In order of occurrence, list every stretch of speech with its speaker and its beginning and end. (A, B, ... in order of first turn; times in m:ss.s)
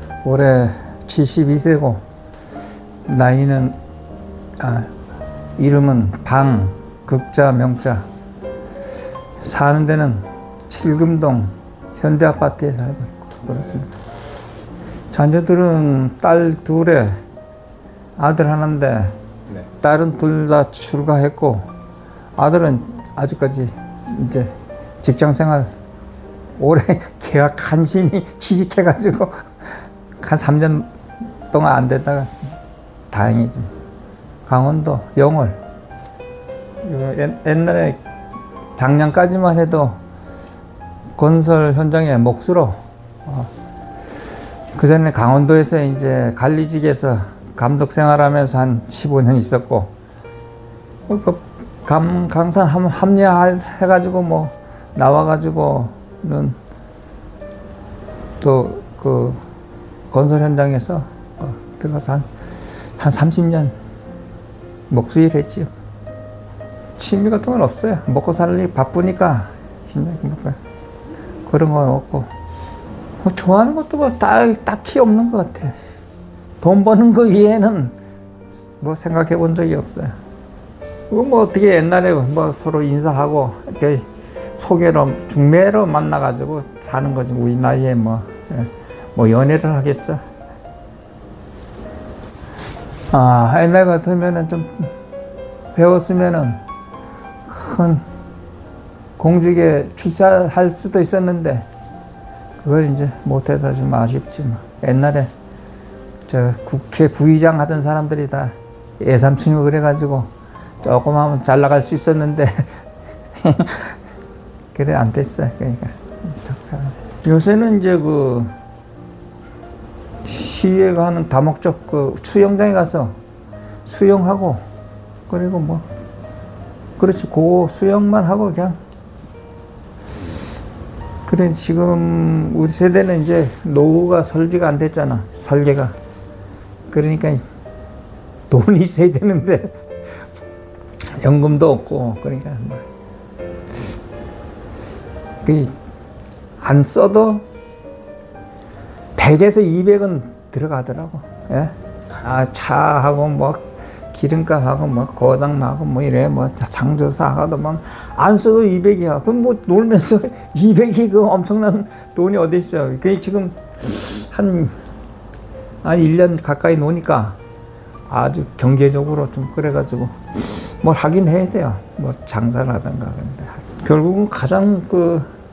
0:00.2-0:02.0 A
0:03.1-0:03.8 A
0:04.6-0:04.9 A
0:05.6-0:08.1 A
0:09.4-0:13.9 A
0:15.1-0:17.2 A
0:18.2-0:21.7 A
0:22.4-0:25.7 A
0:26.6-0:30.9 A
0:31.5-0:32.3 A
0:33.1-0:33.7 A
0:34.5-0:35.6 A
0:36.8-0:38.0 A
0:38.8-0:40.0 A
0:41.2-0:43.5 A
0:44.8-0:49.9 A
0:51.1-0:56.6 A
0:58.4-0:59.4 A
1:00.1-1:02.3 A
1:03.0-1:03.7 A
1:04.9-1:05.7 A
1:07.0-1:10.6 A
1:11.4-1:12.3 A
1:13.2-1:15.8 A
1:16.6-1:18.0 A
1:18.5-1:20.2 A
1:21.1-1:30.2 A
1:33.1-1:34.9 A
1:35.7-1:36.6 A
1:37.5-1:38.0 A
1:39.2-1:41.7 A
1:42.6-1:45.3 A
1:46.3-1:50.3 A
1:50.8-1:52.8 A
1:53.4-1:54.0 A
1:54.7-1:58.5 A
2:00.2-2:03.2 A
2:03.8-2:04.6 A
2:05.3-2:05.8 A
2:07.0-2:08.8 A
2:11.3-2:16.0 A
2:16.9-2:17.4 A
2:18.5-2:20.2 A
2:21.1-2:22.9 A
2:25.4-2:25.8 A
2:26.6-2:27.5 A
2:29.2-2:44.8 A
2:45.8-2:47.4 A
2:48.1-2:55.3 A